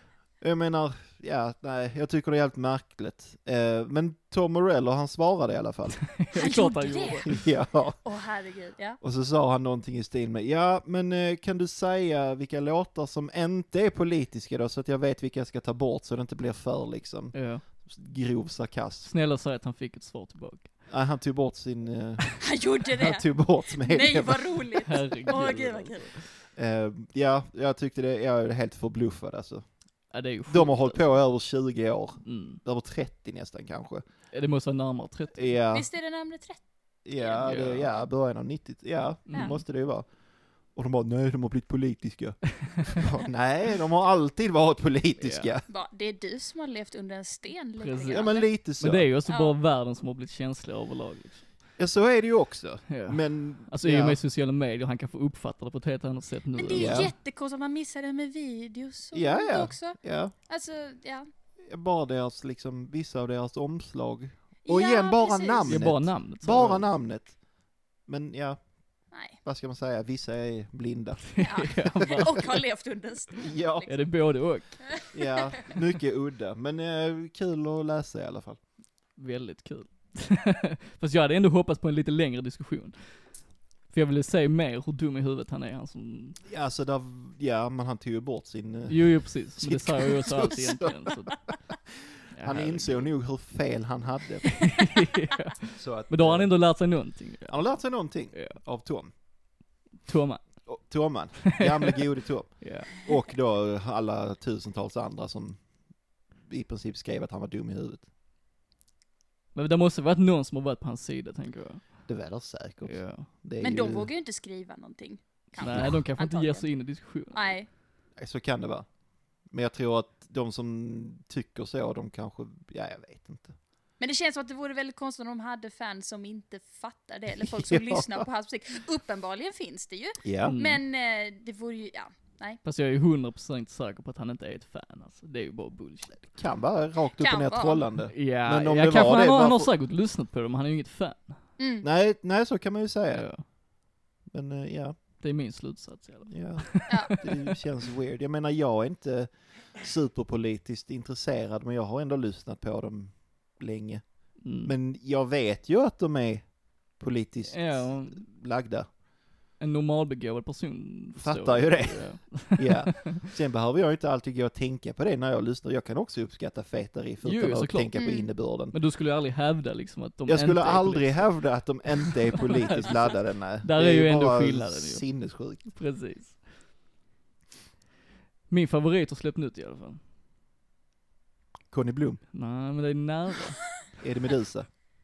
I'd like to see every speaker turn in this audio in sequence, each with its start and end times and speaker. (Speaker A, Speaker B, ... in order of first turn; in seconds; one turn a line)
Speaker A: 0.4-6.1
Speaker B: 6.0-7.4
Speaker C: 6.3-7.3
Speaker A: 7.2-8.0
Speaker C: 8.0-9.0
Speaker A: 9.0-19.1
Speaker B: 17.3-17.6
Speaker B: 19.0-20.7
Speaker A: 20.9-24.6
Speaker C: 22.4-26.2
Speaker B: 24.8-26.2
Speaker A: 26.5-29.7
Speaker B: 30.1-31.1
Speaker A: 30.5-34.0
Speaker B: 32.2-32.6
Speaker B: 34.3-35.5
Speaker A: 35.3-35.9
Speaker C: 35.7-36.6
Speaker A: 37.0-40.1
Speaker C: 37.1-37.5
Speaker B: 37.4-37.9
Speaker B: 39.3-39.6
Speaker A: 40.6-45.6
Speaker B: 42.6-43.0
Speaker B: 45.2-45.5
Speaker C: 45.7-48.5
Speaker B: 47.8-51.5
Speaker A: 48.1-49.1
Speaker C: 49.2-49.5
Speaker A: 51.8-54.2
Speaker B: 52.9-57.1
Speaker C: 56.5-61.3
Speaker A: 56.7-57.1
Speaker A: 59.1-60.3
Speaker A: 61.6-67.4
Speaker C: 64.6-65.8
Speaker B: 65.6-66.9
Speaker A: 68.0-68.7
Speaker C: 69.1-69.4
Speaker A: 69.4-72.3
Speaker B: 71.2-72.6
Speaker C: 71.4-73.9
Speaker A: 73.4-73.9
Speaker B: 73.9-75.0
Speaker A: 75.1-78.6
Speaker B: 79.2-83.3
Speaker B: 83.9-86.4
Speaker A: 86.5-94.8
Speaker B: 88.9-91.5
Speaker B: 92.3-93.1
Speaker B: 94.5-98.6
Speaker A: 95.7-96.7
Speaker A: 97.5-99.1
Speaker B: 100.0-100.7
Speaker A: 100.7-105.6
Speaker B: 101.5-102.0
Speaker B: 102.6-103.0
Speaker A: 106.4-108.1
Speaker B: 109.5-112.1
Speaker A: 112.0-114.1
Speaker B: 112.8-113.3
Speaker C: 113.6-116.7
Speaker B: 115.6-117.6
Speaker A: 115.7-115.9
Speaker C: 117.3-117.7
Speaker A: 118.2-118.9
Speaker A: 119.5-123.6
Speaker C: 124.0-132.6
Speaker A: 127.5-128.2
Speaker A: 130.2-130.5
Speaker B: 130.4-130.8
Speaker B: 132.6-136.3
Speaker A: 136.2-139.7
Speaker C: 137.2-137.8
Speaker B: 138.1-141.4
Speaker C: 141.6-141.8
Speaker A: 141.8-143.3
Speaker B: 143.1-143.4
Speaker A: 144.3-145.0
Speaker B: 145.2-147.5
Speaker A: 146.3-158.9
Speaker C: 146.9-147.1
Speaker B: 154.4-154.7
Speaker B: 157.5-158.2
Speaker B: 159.6-163.3
Speaker A: 161.2-168.8
Speaker B: 167.2-167.9
Speaker C: 167.9-168.3
Speaker B: 168.6-176.5
Speaker A: 170.3-175.6
Speaker B: 178.5-180.0
Speaker A: 181.7-182.2
Speaker B: 182.3-183.8
Speaker A: 184.0-184.7